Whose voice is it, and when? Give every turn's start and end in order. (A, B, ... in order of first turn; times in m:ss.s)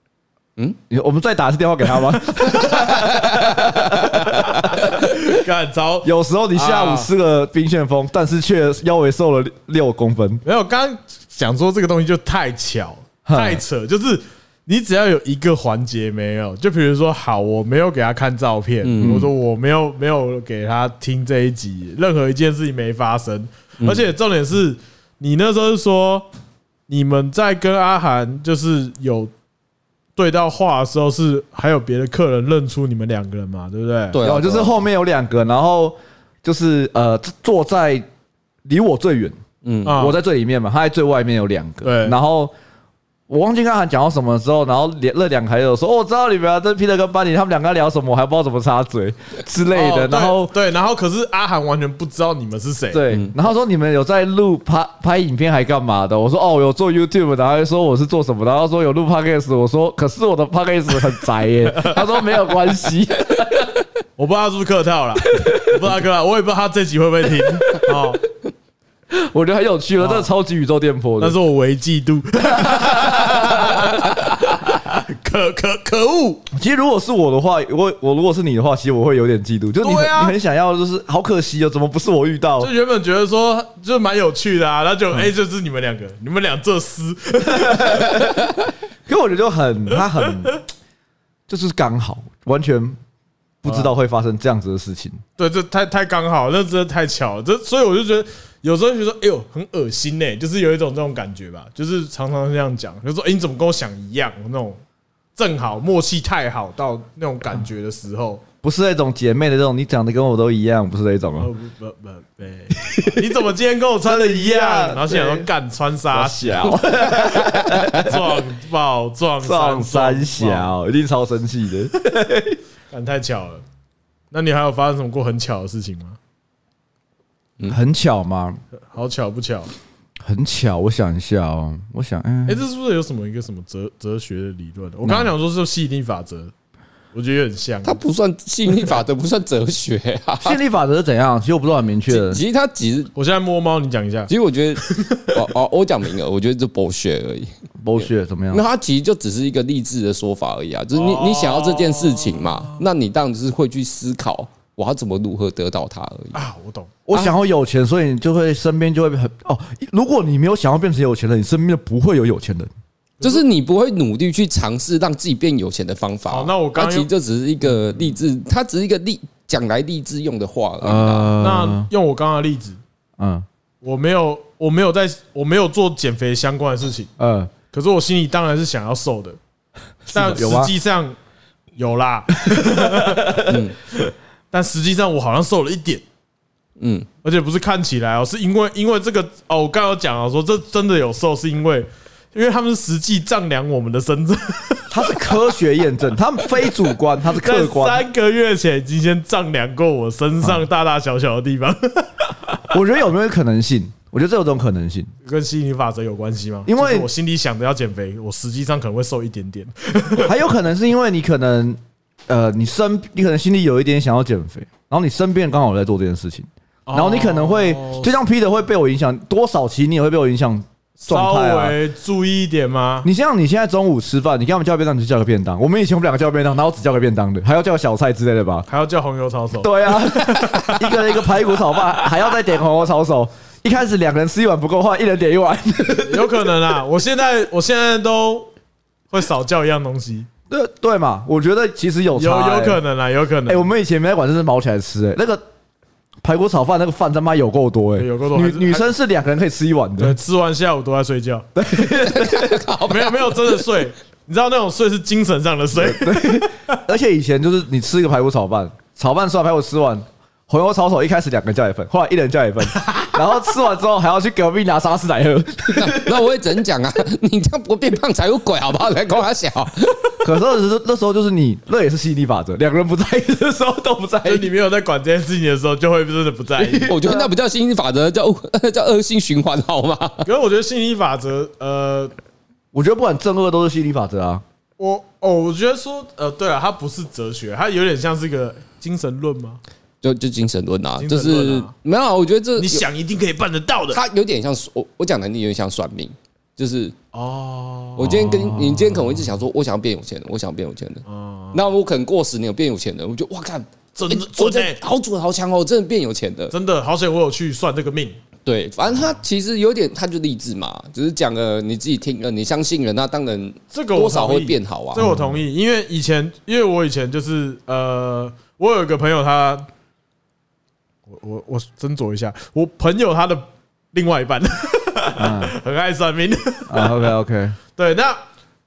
0:00.9-0:04.8 A
0:03.1-0:04.0 B
0:04.3-0:07.1 C
0:06.0-0:10.4 A
0:10.4-0:26.3 C
0:13.2-0:13.6 A
0:18.8-0:19.3 B
0:19.0-0:19.3 A
0:23.8-0:24.1 B
0:26.9-0:29.3 C
0:30.2-0:34.2 C
0:34.1-0:34.8 B
0:34.2-0:38.1 A
0:38.6-0:39.4 A
0:39.6-0:40.0 B
0:39.9-0:40.2 C
0:39.9-0:42.5 A
0:41.8-0:42.2 C
0:43.3-0:50.5 A
0:49.7-0:53.0 C
0:52.9-1:03.8 A
1:01.7-1:02.0 C
1:04.2-1:08.2 C
1:05.3-1:05.8 A
1:09.1-1:11.4 A
1:10.0-1:10.3 C
1:11.2-1:16.4 C
1:12.5-1:13.9 A
1:16.5-1:22.7 A
1:19.8-1:20.4 C
1:22.6-1:28.3 C
1:27.5-1:28.4 A
1:29.1-1:30.6 A
1:31.5-1:33.0 A
1:33.6-1:35.2 A
1:33.7-1:33.9 C
1:35.4-1:44.8 C
1:45.4-1:48.4 C
1:48.6-1:51.5 A
1:51.4-2:00.7 C
1:52.8-1:53.2 A
1:54.0-1:55.5 A
1:56.1-1:58.2 A
1:59.4-2:02.6 A
2:02.9-2:03.6 C
2:04.3-2:06.2 C
2:07.7-2:08.6 A
2:08.9-2:09.7 C
2:10.2-2:12.6 A
2:12.5-2:16.5 C
2:15.0-2:15.3 A
2:17.1-2:18.0 C
2:17.8-2:20.6 B
2:20.4-2:22.4 A
2:22.1-2:23.1 B
2:23.2-2:25.4 C
2:24.3-2:36.4 B
2:27.8-2:28.6 A
2:30.9-2:32.8 C
2:36.3-2:36.9 C
2:37.1-2:42.7 A
2:43.2-2:51.3 B
2:46.3-2:47.1 C
2:50.8-2:51.9 A
2:51.4-2:52.8 C
2:53.2-2:53.5 A
2:53.8-2:57.1 C
2:57.2-2:57.5 A
2:57.7-2:59.4 C
3:00.1-3:00.7 A
3:00.1-3:01.2 C
3:01.8-3:03.4 C
3:02.4-3:03.6 A
3:03.5-3:03.8 B
3:04.5-3:06.0 C
3:06.8-3:07.1 B
3:07.2-3:15.5 C
3:14.9-3:18.0 A
3:16.5-3:16.8 C
3:17.3-3:22.3 C
3:22.7-3:25.1 A
3:25.2-3:30.4 C
3:26.7-3:27.1 A
3:30.2-3:41.8 A
3:36.9-3:38.1 C
3:41.0-3:43.1 C
3:43.0-3:48.7 A
3:48.7-3:51.2 C
3:49.6-3:56.4 A
3:56.0-3:58.5 C
3:59.1-4:00.3 C
4:00.5-4:02.8 A
4:02.1-4:03.7 C
4:03.5-4:05.4 A
4:06.2-4:10.2 A
4:08.0-4:08.9 C
4:10.0-4:11.5 C
4:11.6-4:12.7 A
4:12.0-4:13.6 B
4:12.9-4:16.8 C
4:15.8-4:26.3 A
4:25.7-4:30.2 B
4:30.2-4:34.5 A
4:34.2-4:36.9 C
4:36.6-4:37.3 A
4:36.9-4:40.2 B
4:40.2-4:42.1 C
4:42.7-4:44.4 A
4:44.8-4:49.6 C
4:50.0-4:52.8 B
4:51.0-4:51.7 C
4:52.6-4:54.0 C
4:53.9-4:57.0 B
4:57.1-4:58.1 C
4:58.0-5:06.5 B
4:58.0-4:59.3 A
5:01.1-5:01.6 C
5:04.0-5:04.8 C
5:06.5-5:08.2 C
5:08.5-5:15.1 B
5:13.7-5:19.7 C
5:15.0-5:15.4 A
5:21.1-5:27.1 C
5:25.2-5:25.6 A
5:26.7-5:27.6 A
5:27.8-5:28.2 C